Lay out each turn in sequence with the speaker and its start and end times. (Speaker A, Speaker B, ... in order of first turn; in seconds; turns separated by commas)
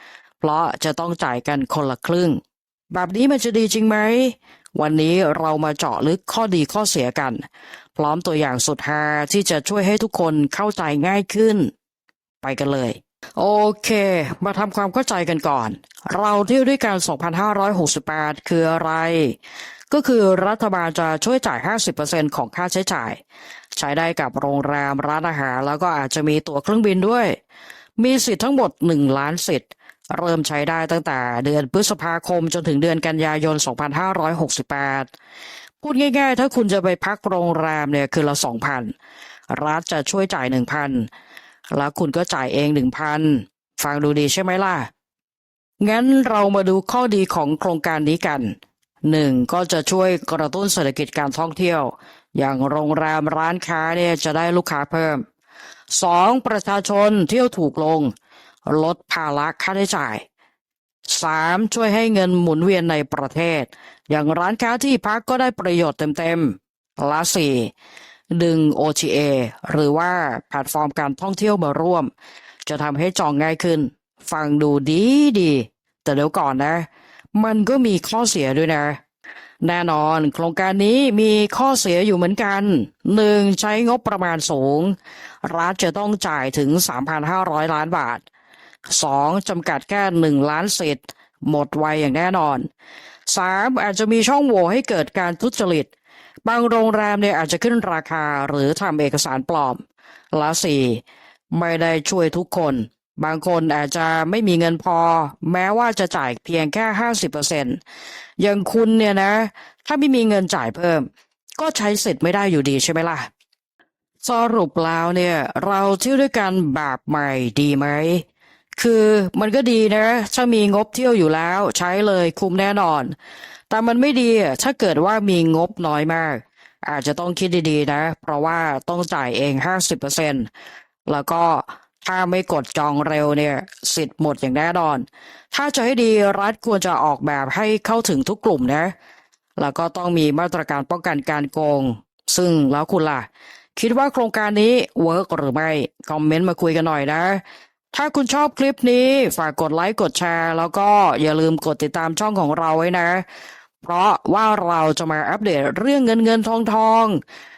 Speaker A: 0.4-7.4, Speaker A: 8.0-11.7, Speaker A: 12.4-19.4, Speaker A: 19.9-23.2, Speaker A: 23.7-27.4, Speaker A: 28.0-35.1, Speaker A: 35.8-38.9, Speaker A: 39.5-41.1, Speaker A: 41.7-44.9, Speaker A: 45.8-55.2, Speaker A: 55.9-58.1, Speaker A: 58.7-60.2, Speaker A: 61.1-67.7, Speaker A: 68.3-72.1, Speaker A: 72.7-79.0, Speaker A: 79.6-88.2, Speaker A: 88.9-92.7, Speaker A: 93.3-95.9, Speaker A: 96.5-99.8, Speaker A: 100.3-107.8, Speaker A: 108.4-113.3, Speaker A: 114.2-118.2, Speaker A: 118.8-123.2, Speaker A: 123.7-130.5, Speaker A: 131.1-138.9, Speaker A: 139.6-153.2, Speaker A: 153.8-157.2